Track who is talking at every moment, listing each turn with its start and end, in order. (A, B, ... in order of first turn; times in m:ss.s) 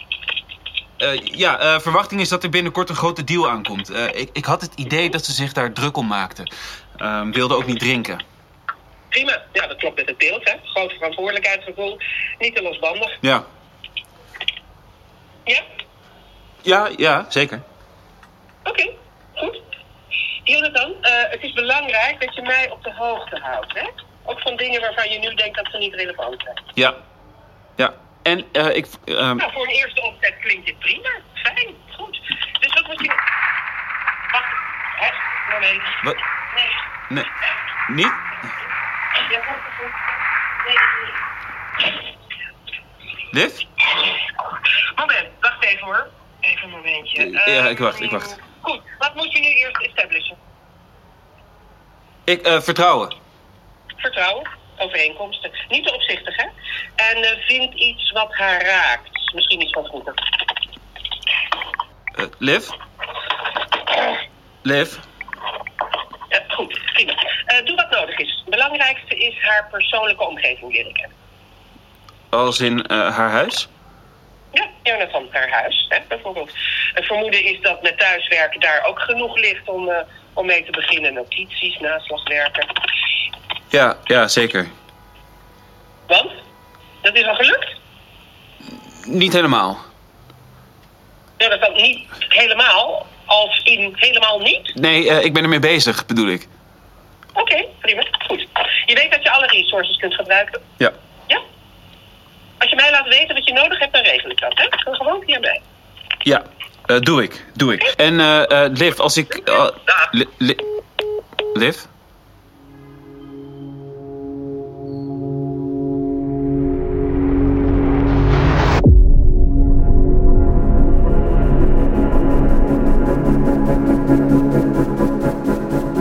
0:01.0-0:08.2 A
0:09.1-0:13.2 B
0:16.6-0:17.6 A
0:18.6-0:19.6 B
0:20.4-0:26.6 B
0:26.8-0:27.0 A
0:27.8-0:29.4 A
0:29.4-0:33.2 B
0:34.3-0:36.8 B
0:37.9-0:38.2 A
0:39.2-0:41.2 B
0:43.3-0:43.6 A
0:44.0-0:50.4 B
0:47.2-0:48.4 A
0:52.3-0:53.1 A
0:54.0-1:00.2 B
1:02.2-1:02.8 A
1:04.6-1:05.0 A
1:06.3-1:11.1 B
1:12.3-1:13.7 A
1:14.5-1:22.7 B
1:23.7-1:24.7 A
1:26.1-1:26.4 B
1:27.0-1:27.7 B
1:28.7-1:29.8 A
1:31.4-1:34.7 B
1:34.8-1:36.5 A
1:37.4-1:40.6 B
1:42.6-1:45.6 B
1:46.2-1:50.6 A
1:49.5-1:50.0 B
1:51.5-1:51.9 A